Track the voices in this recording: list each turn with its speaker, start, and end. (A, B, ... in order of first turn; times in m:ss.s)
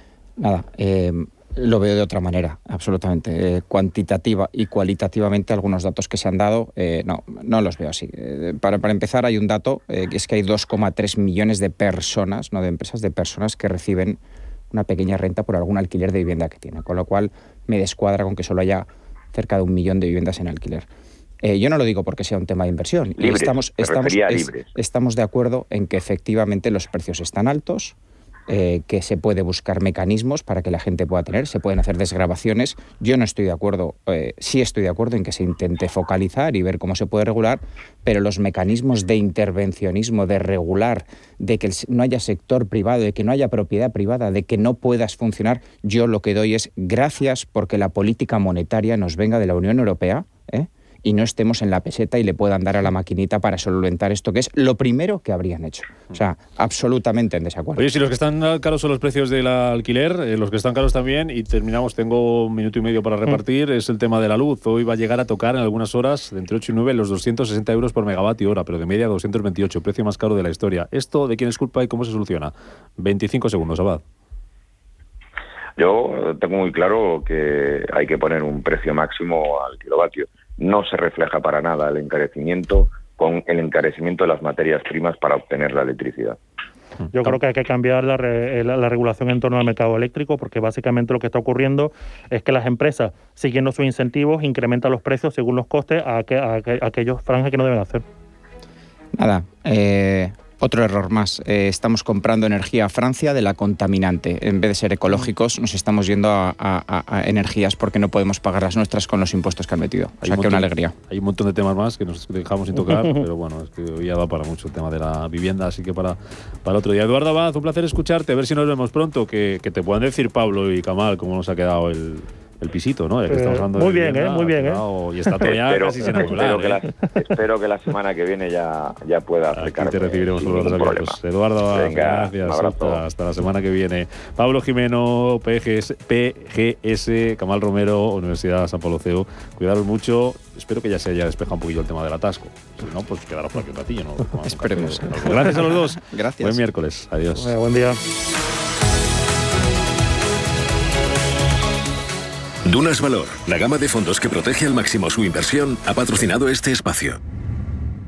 0:00.4-0:14.2 A
0:14.7-0:20.9 A
0:21.4-0:27.9 A
0:23.2-0:24.7 B
0:28.5-0:57.8 A
0:57.8-1:14.0 C
1:15.8-1:26.4 B
1:27.1-1:38.0 D
1:39.2-1:50.9 A
1:50.2-2:06.8 C
2:03.3-2:04.8 D
2:05.5-2:11.2 B
2:09.5-2:27.6 C
2:11.7-2:13.0 B
2:24.4-2:26.6 A
2:27.4-2:28.0 D
2:32.6-2:37.2 E